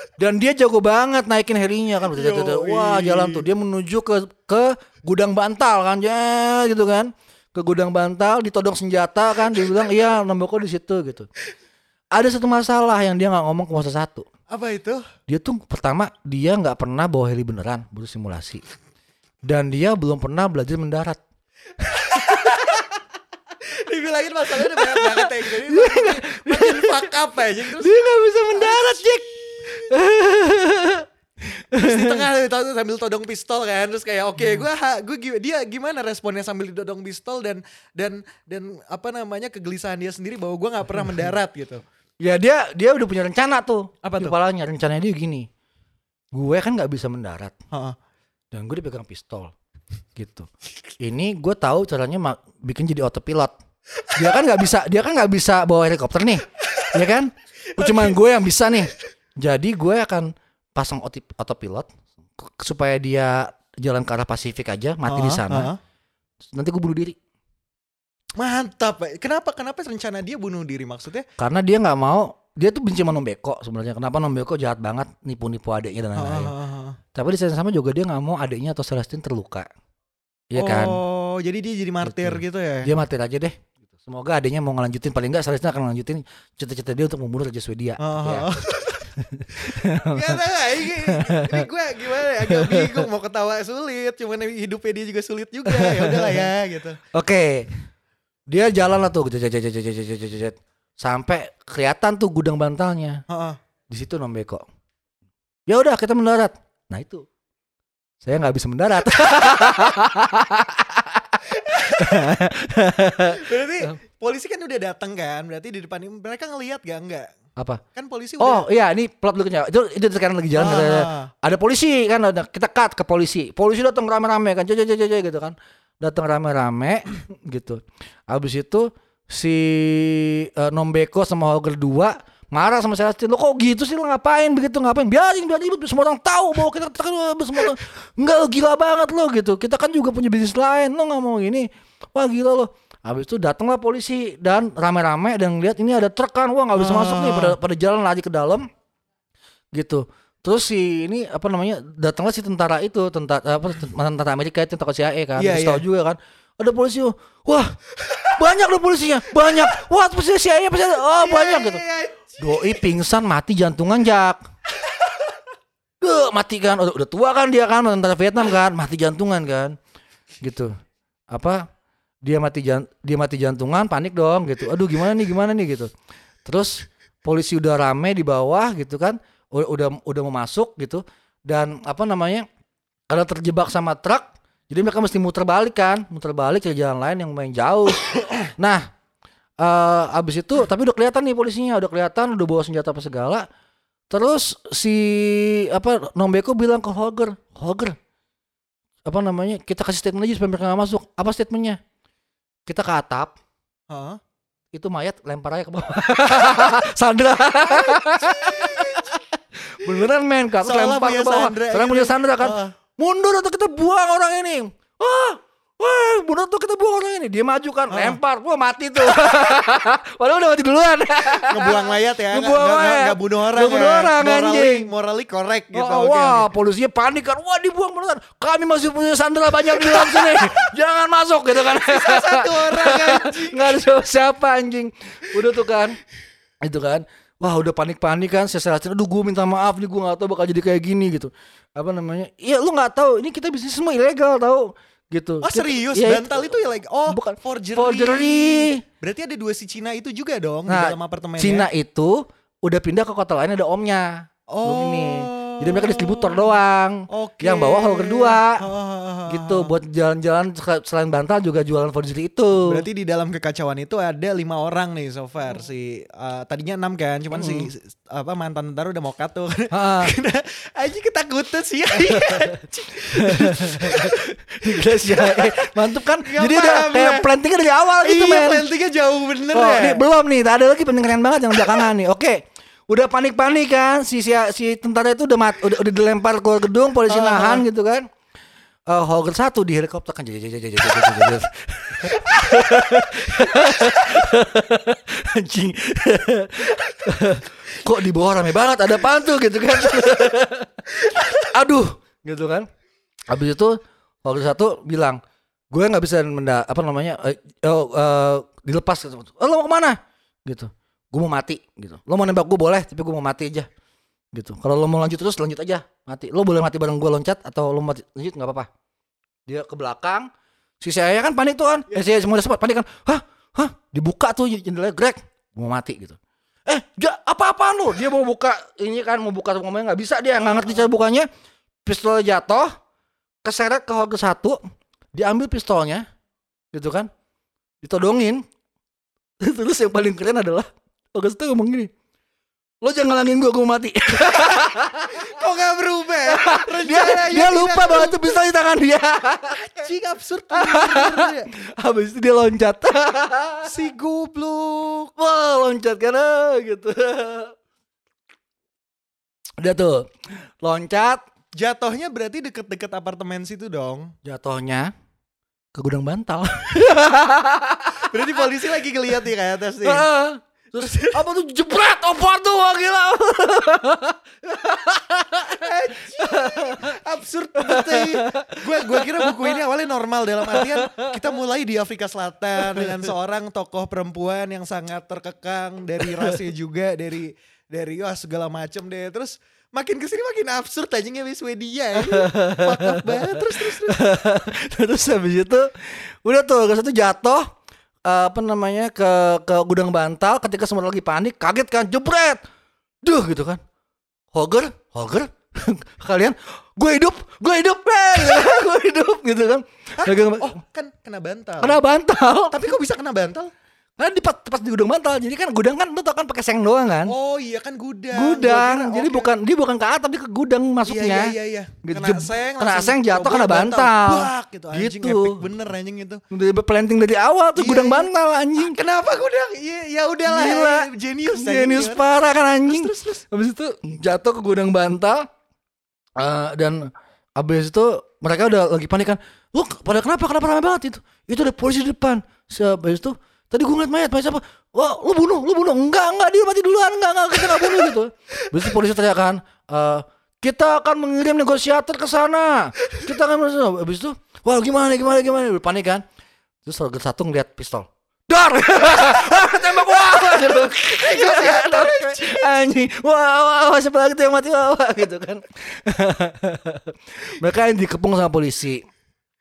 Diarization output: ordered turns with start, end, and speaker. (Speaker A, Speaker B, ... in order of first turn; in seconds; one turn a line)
Speaker A: 0.2-11.3
Speaker B: 2.1-3.5
Speaker A: 12.1-14.3
Speaker B: 14.5-15.1
Speaker A: 15.3-18.6
Speaker A: 19.4-21.2
Speaker A: 21.9-22.7
Speaker B: 21.9-23.0
Speaker B: 23.6-27.9
Speaker A: 24.6-27.1
Speaker A: 27.7-32.2
Speaker B: 28.5-29.9
Speaker B: 31.8-41.8
Speaker A: 34.4-34.6
Speaker A: 42.2-45.5
Speaker B: 44.0-44.3
Speaker A: 46.3-47.5
Speaker A: 48.5-49.5
Speaker A: 50.1-50.5
Speaker A: 51.0-53.5
Speaker A: 54.1-65.7
Speaker B: 57.7-58.2
Speaker B: 65.0-65.8
Speaker A: 66.5-67.2
Speaker B: 68.4-71.3
Speaker A: 71.4-76.5
Speaker B: 76.2-77.0
Speaker A: 77.1-79.7
Speaker A: 80.5-81.0
Speaker B: 80.5-82.9
Speaker A: 82.0-88.5
Speaker B: 88.0-97.0
Speaker A: 89.2-91.7
Speaker A: 92.5-93.1
Speaker A: 95.7-96.5
Speaker A: 97.1-97.7
Speaker A: 98.5-103.2
Speaker B: 103.3-103.6
Speaker A: 103.9-104.6
Speaker A: 105.7-107.3
Speaker A: 108.2-113.9
Speaker B: 111.7-112.1
Speaker B: 113.3-117.3
Speaker A: 117.6-117.8
Speaker B: 117.9-118.6
Speaker A: 118.4-148.7
Speaker B: 120.5-121.3
Speaker B: 146.7-147.6
Speaker A: 149.8-161.8
Speaker B: 155.4-155.8
Speaker B: 161.2-162.8
Speaker A: 162.4-164.4
Speaker A: 166.0-169.8
Speaker A: 170.4-170.7
Speaker A: 171.3-171.6
Speaker A: 172.2-175.9
Speaker A: 176.4-182.5
Speaker A: 183.1-188.9
Speaker A: 189.6-193.4
Speaker A: 194.1-197.9
Speaker A: 199.0-201.8
Speaker A: 202.7-203.3
Speaker B: 203.9-204.2
Speaker A: 204.7-209.2
Speaker B: 208.4-209.1
Speaker A: 209.7-224.9
Speaker B: 210.6-212.7
Speaker B: 217.9-218.2
Speaker B: 221.4-226.5
Speaker A: 225.7-236.0
Speaker B: 229.9-230.2
Speaker B: 231.7-233.8
Speaker A: 236.6-248.8
Speaker B: 245.4-251.7
Speaker A: 250.7-258.6
Speaker B: 254.5-256.5
Speaker B: 257.1-259.7
Speaker A: 259.3-262.8
Speaker B: 262.6-277.3
Speaker A: 267.3-267.7
Speaker A: 269.7-270.1
Speaker A: 271.9-272.5
Speaker A: 273.1-278.7
Speaker B: 278.0-280.0
Speaker A: 279.5-288.1
Speaker B: 287.1-287.6
Speaker A: 288.9-302.7
Speaker A: 303.3-313.7
Speaker A: 314.3-318.7
Speaker A: 319.4-320.3
Speaker A: 320.8-331.3
Speaker A: 331.8-332.7
Speaker A: 333.4-334.6
Speaker A: 335.1-336.0
Speaker A: 336.7-337.1
Speaker A: 337.8-338.4
Speaker A: 339.4-341.9
Speaker A: 342.8-345.4
Speaker B: 345.1-348.4
Speaker A: 346.2-349.9
Speaker B: 349.6-351.5
Speaker A: 350.5-353.8
Speaker B: 353.6-355.1
Speaker A: 355.1-357.5
Speaker A: 359.6-360.1
Speaker A: 360.6-361.2
Speaker B: 361.6-364.1
Speaker A: 364.2-364.9
Speaker A: 365.7-368.5
Speaker B: 367.9-370.1
Speaker A: 369.8-377.0
Speaker B: 370.8-371.2
Speaker B: 375.4-394.0
Speaker A: 377.6-379.6
Speaker A: 380.4-381.4
Speaker A: 382.6-383.1
Speaker A: 386.0-386.4
Speaker A: 392.0-397.5
Speaker A: 398.0-402.4
Speaker A: 403.0-403.6
Speaker A: 404.3-410.6
Speaker B: 410.0-411.8
Speaker A: 411.6-412.7
Speaker B: 412.5-413.5
Speaker A: 414.0-417.1
Speaker B: 417.1-419.3
Speaker A: 418.1-425.4
Speaker B: 420.8-426.2
Speaker A: 426.3-428.8
Speaker B: 427.6-432.0
Speaker A: 430.2-435.2
Speaker B: 432.7-433.2
Speaker A: 436.2-456.0
Speaker A: 456.6-468.9
Speaker B: 461.0-462.4